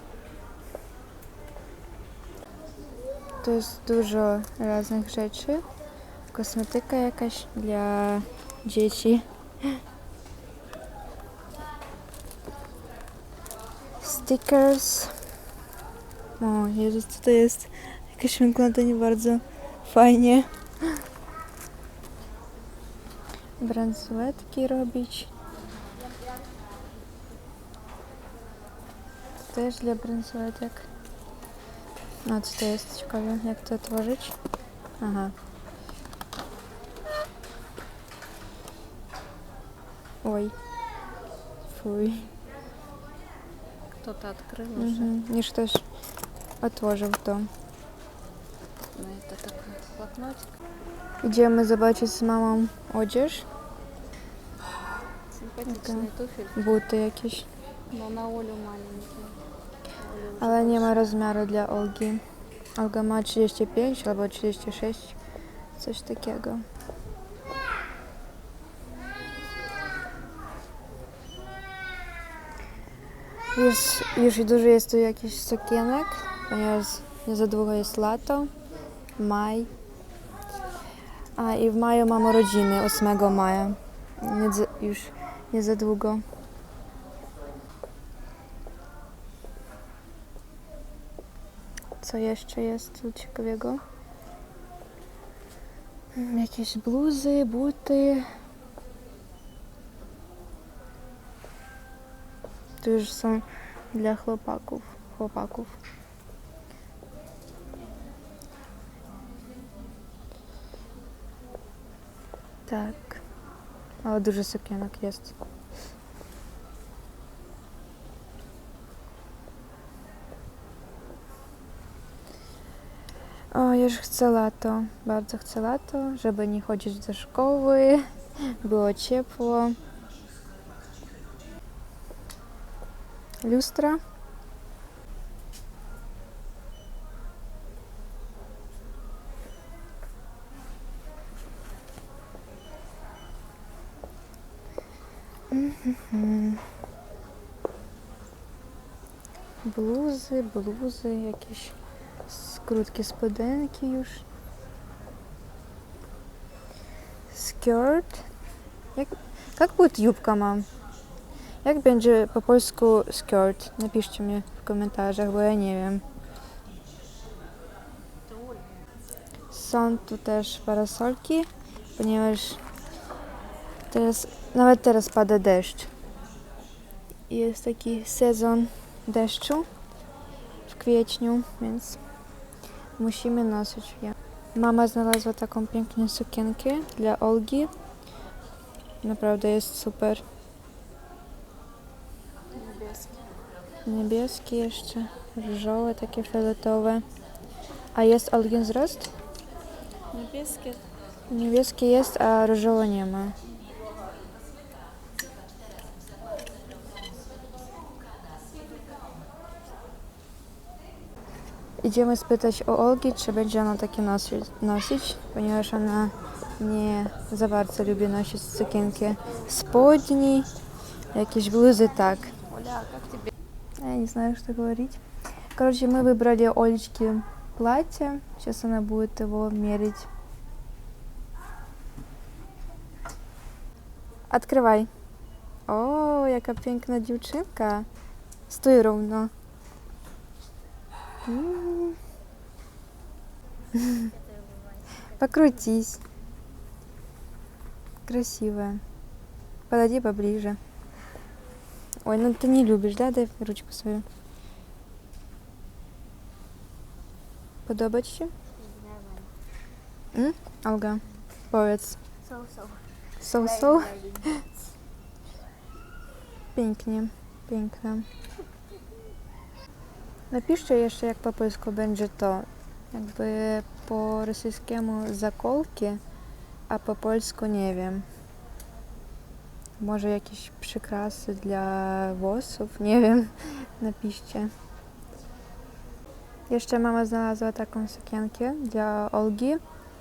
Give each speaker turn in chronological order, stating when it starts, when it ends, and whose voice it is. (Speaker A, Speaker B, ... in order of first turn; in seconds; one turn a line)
Speaker A: 3.4-5.6
Speaker A: 6.3-9.8
Speaker A: 14.0-15.1
Speaker A: 16.4-21.0
Speaker A: 23.6-25.3
Speaker A: 29.5-30.9
Speaker A: 32.2-34.3
Speaker A: 35.0-35.3
Speaker A: 40.2-40.5
Speaker A: 41.7-42.3
Speaker B: 44.0-45.1
Speaker A: 44.8-45.8
Speaker A: 46.6-47.5
Speaker B: 48.9-50.5
Speaker A: 51.2-53.5
Speaker B: 55.3-56.8
Speaker A: 55.7-57.5
Speaker B: 57.9-59.4
Speaker B: 60.0-61.1
Speaker A: 60.4-62.2
Speaker A: 62.8-65.1
Speaker A: 65.8-66.6
Speaker A: 73.5-78.5
Speaker A: 79.2-79.7
Speaker A: 81.4-86.2
Speaker A: 92.0-93.8
Speaker A: 96.1-98.3
Speaker A: 102.8-105.8
Speaker A: 112.7-113.2
Speaker A: 114.0-115.3
Speaker A: 123.5-129.8
Speaker A: 133.4-134.0
Speaker A: 145.5-146.6
Speaker A: 149.6-151.7
Speaker A: 152.3-154.2
Speaker A: 157.3-158.2
Speaker A: 158.9-160.7
Speaker A: 161.6-166.0
Speaker A: 169.5-172.6
Speaker A: 173.9-175.9
Speaker A: 177.3-179.7
Speaker A: 180.7-182.0
Speaker A: 183.0-187.7
Speaker A: 189.0-190.2
Speaker B: 192.5-193.3
Speaker A: 193.8-197.0
Speaker A: 197.9-199.1
Speaker B: 200.1-200.8
Speaker A: 201.3-203.3
Speaker A: 211.8-220.5
Speaker A: 221.1-222.3
Speaker B: 222.3-223.3
Speaker A: 223.8-225.0
Speaker A: 225.5-230.1
Speaker A: 234.3-234.9
Speaker A: 235.7-237.9
Speaker A: 238.5-239.3
Speaker A: 241.2-242.0
Speaker A: 243.7-244.1
Speaker C: 243.8-245.5
Speaker A: 245.2-246.0
Speaker A: 248.1-248.8
Speaker A: 249.7-250.6
Speaker A: 252.0-254.0
Speaker A: 257.7-258.3
Speaker C: 258.6-259.3
Speaker A: 260.1-262.0
Speaker C: 262.2-264.7
Speaker A: 263.2-263.9
Speaker A: 266.5-268.0
Speaker A: 270.3-276.0
Speaker A: 276.7-278.0
Speaker A: 279.8-284.5
Speaker A: 286.5-289.6